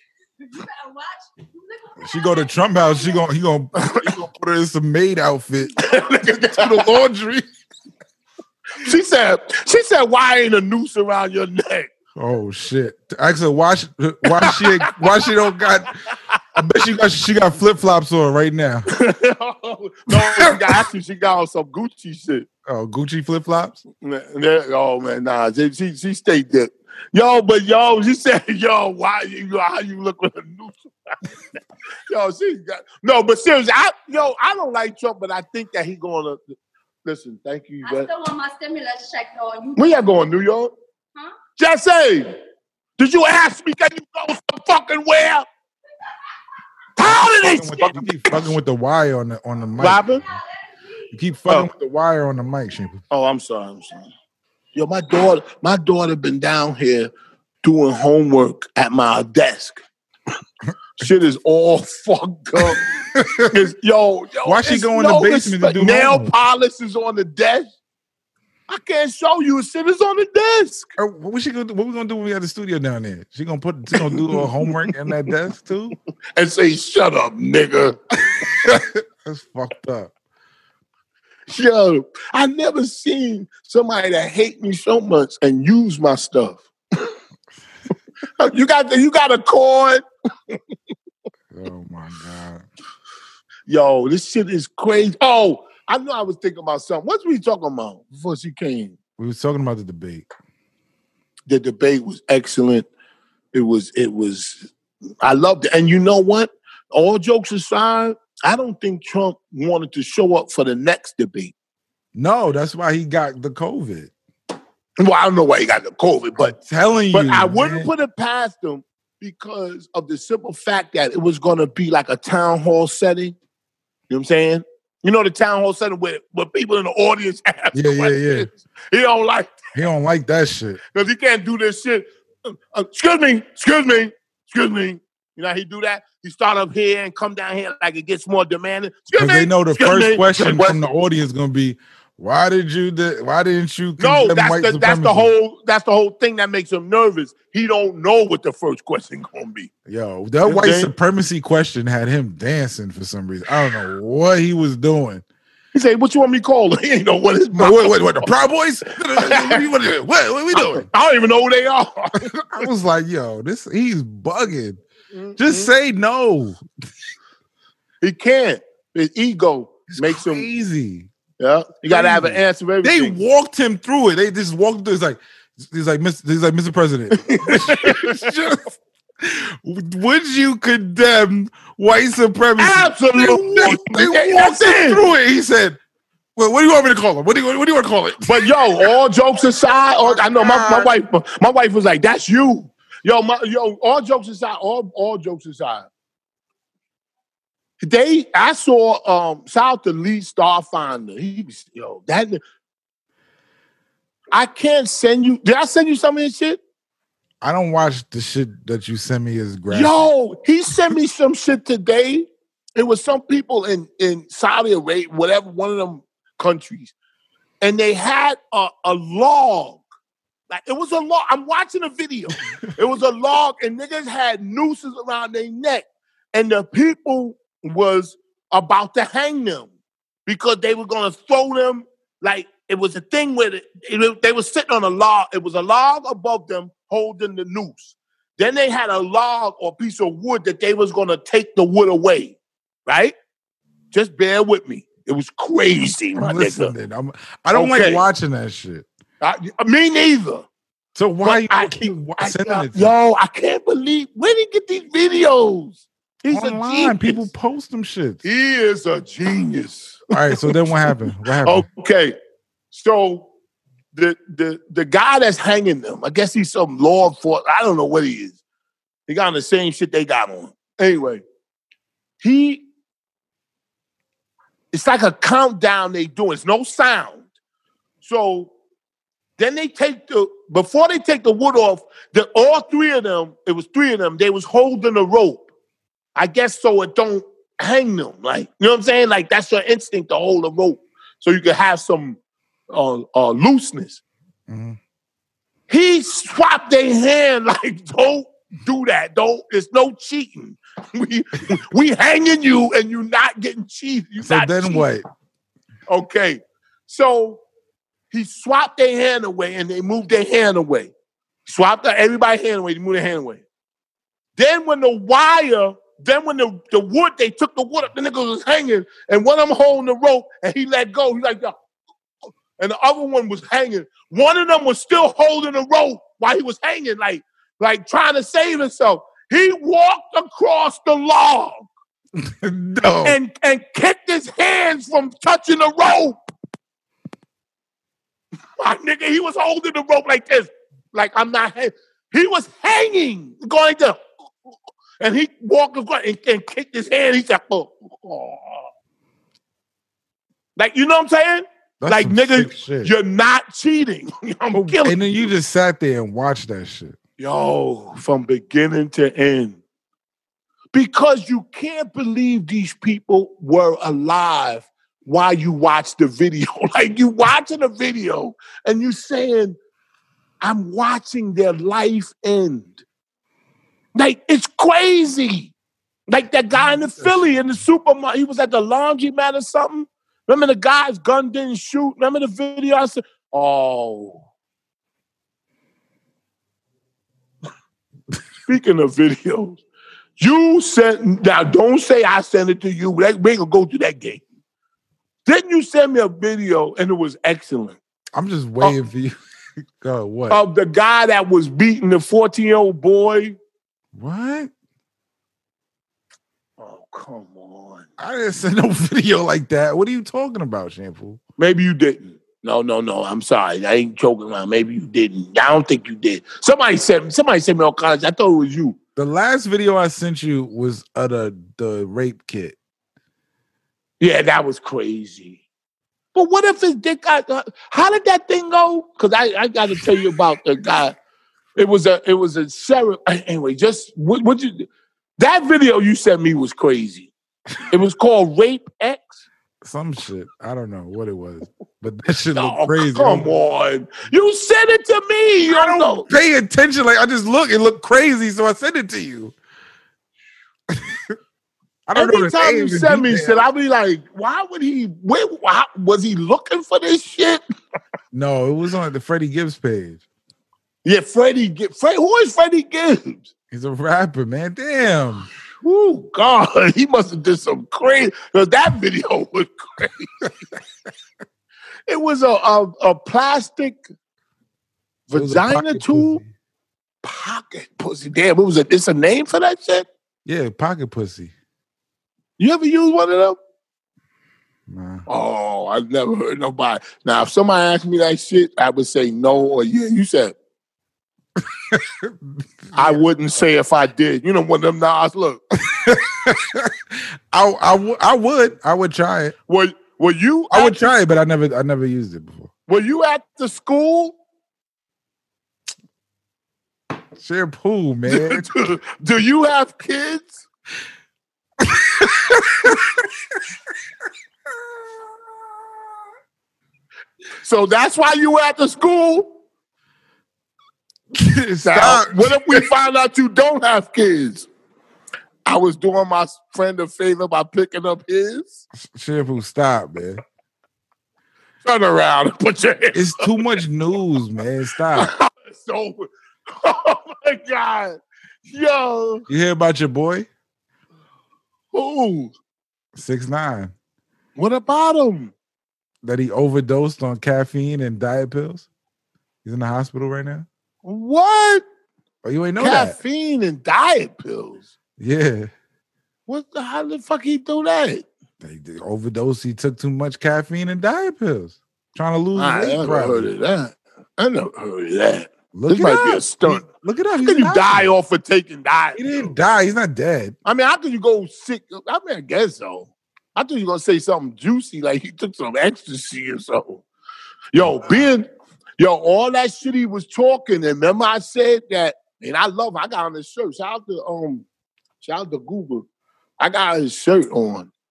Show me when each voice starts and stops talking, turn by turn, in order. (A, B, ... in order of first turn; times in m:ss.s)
0:00.4-0:03.3 A
0:02.0-0:07.4 B
0:03.8-0:04.2 C
0:05.8-0:06.8 C
0:08.8-0:11.9 C
0:12.2-0:16.0 B
0:14.3-0:15.2 C
0:16.5-0:18.8 B
0:18.9-0:22.5 C
0:20.1-0:20.8 B
0:22.6-0:23.8 B
0:24.0-0:31.3 C
0:32.1-0:38.1 C
0:37.8-0:40.0 A
0:39.8-0:40.7 C
0:41.6-0:42.4 C
0:43.0-0:45.5 C
0:47.0-0:48.4 C
0:47.0-0:50.0 B
0:49.8-0:50.2 C
0:50.3-0:51.0 A
0:51.1-0:53.0 B
0:53.1-0:54.0 C
0:54.7-0:57.1 C
0:57.6-0:59.8 C
1:01.0-1:02.8 C
1:03.1-1:03.6 B
1:03.5-1:07.7 C
1:04.4-1:06.3 B
1:08.7-1:10.9 C
1:11.0-1:16.0 B
1:13.9-1:14.9 C
1:16.4-1:18.7 C
1:18.6-1:20.1 B
1:21.5-1:27.1 C
1:28.4-1:30.6 C
1:31.5-1:32.6 B
1:33.7-1:38.9 C
1:39.2-1:40.3 B
1:41.5-1:42.9 C
1:43.5-1:44.7 C
1:45.2-1:51.5 C
1:52.1-1:54.1 B
1:55.0-1:56.6 C
1:56.4-1:57.9 B
1:57.1-2:03.4 C
2:04.1-2:09.6 C
2:07.7-2:08.5 B
2:09.7-2:10.8 B
2:10.9-2:20.8 C
2:19.1-2:25.3 B
2:24.0-2:29.7 C
2:29.8-2:35.2 B
2:30.4-2:30.9 C
2:35.7-2:38.2 C
2:37.6-2:40.9 B
2:39.2-2:39.6 C
2:40.5-2:42.7 C
2:42.5-2:44.8 B
2:45.1-2:45.7 C
2:45.4-2:46.6 B
2:48.0-2:50.5 C
2:49.9-2:51.1 B
2:51.4-2:53.2 C
2:51.9-3:05.8 B
2:57.2-2:58.2 C
3:02.6-3:05.0 C
3:06.4-3:08.9 B
3:08.2-3:15.9 C
3:10.0-3:10.9 B
3:17.8-3:22.4 C
3:24.3-3:26.6 C
3:27.4-3:30.1 B
3:29.7-3:36.9 C
3:37.6-3:39.8 C
3:40.5-3:49.7 C
3:50.2-4:03.2 C
4:03.9-4:06.7 C
4:06.2-4:08.8 B
4:07.5-4:08.0 C
4:09.2-4:10.4 C
4:11.0-4:12.9 B
4:11.2-4:17.3 C
4:16.3-4:18.2 B
4:18.2-4:22.2 C
4:20.1-4:21.6 B
4:22.7-4:23.3 C
4:23.9-4:28.4 C
4:29.1-4:31.2 C
4:32.2-4:32.6 C
4:34.7-4:37.2 C
4:38.0-4:38.5 C
4:39.4-4:45.4 C
4:46.2-4:52.2 C
4:52.7-4:54.0 C
4:54.5-4:54.8 B
4:55.7-5:04.9 C
5:04.2-5:05.0 B
5:05.9-5:07.4 C
5:08.1-5:10.9 C
5:11.4-5:13.4 C
5:14.4-5:21.5 C
5:22.6-5:31.7 C
5:32.2-5:33.2 B
5:33.0-5:36.2 C
5:38.6-5:44.0 C
5:45.0-5:48.7 C
5:50.6-5:55.0 C
5:51.8-5:52.9 B
5:54.5-5:57.0 B
5:57.2-5:59.6 C
6:00.7-6:09.6 C
6:10.4-6:12.8 C
6:13.9-6:15.5 C
6:16.1-6:24.2 C
6:28.4-6:29.6 C
6:30.2-6:34.2 C
6:35.2-6:37.8 C
6:38.1-6:39.2 B
6:39.8-6:40.4 B
6:40.3-6:43.4 C
6:43.9-6:44.5 B
6:46.6-6:47.9 C
6:48.0-6:51.2 B
6:51.4-6:58.8 C
6:59.0-7:02.6 B
7:04.0-7:05.4 C
7:06.1-7:11.0 C
7:11.6-7:17.1 C
7:17.7-7:19.2 C
7:19.6-7:23.3 B
7:22.3-7:26.1 C
7:25.5-7:29.3 B
7:30.7-7:31.1 B
7:31.9-7:33.4 B
7:31.9-7:37.4 C
7:38.1-7:40.0 B
7:40.8-7:43.3 C
7:43.5-7:45.3 B
7:45.6-7:50.1 C
7:51.9-7:53.8 C
7:55.1-7:56.2 C
7:55.1-7:56.3 B
7:57.0-7:59.9 C
8:00.2-8:01.3 B
8:02.4-8:03.4 C
8:04.7-8:05.1 B
8:05.1-8:10.4 C
8:11.4-8:13.0 B
8:12.7-8:15.4 C
8:15.6-8:19.3 B
8:19.5-8:20.9 C
8:20.5-8:22.5 B
8:22.7-8:24.2 C
8:27.2-8:28.4 B
8:28.1-8:30.4 C
8:31.6-8:33.0 B
8:37.4-8:39.3 C
8:41.1-8:42.7 B
8:41.6-8:44.5 C
8:45.4-8:48.6 C
8:48.7-8:50.2 B
8:51.6-8:53.5 C
8:52.9-8:55.1 B
8:54.9-8:59.2 C
8:59.3-9:00.3 B
9:01.7-9:02.3 C
9:02.9-9:03.7 B
9:04.4-9:05.3 C
9:06.0-9:08.7 B
9:09.4-9:10.4 B
9:10.8-9:11.6 C
9:12.2-9:13.0 B
9:12.6-9:14.7 C
9:15.0-9:15.5 B
9:16.3-9:18.0 C
9:18.4-9:23.3 B
9:22.3-9:26.7 C
9:25.5-9:27.9 B
9:27.2-9:29.4 C
9:29.0-9:30.4 B
9:30.4-9:36.8 C
9:37.5-9:44.4 C
9:37.6-9:38.0 B
9:45.0-9:45.8 C
9:46.4-9:47.7 C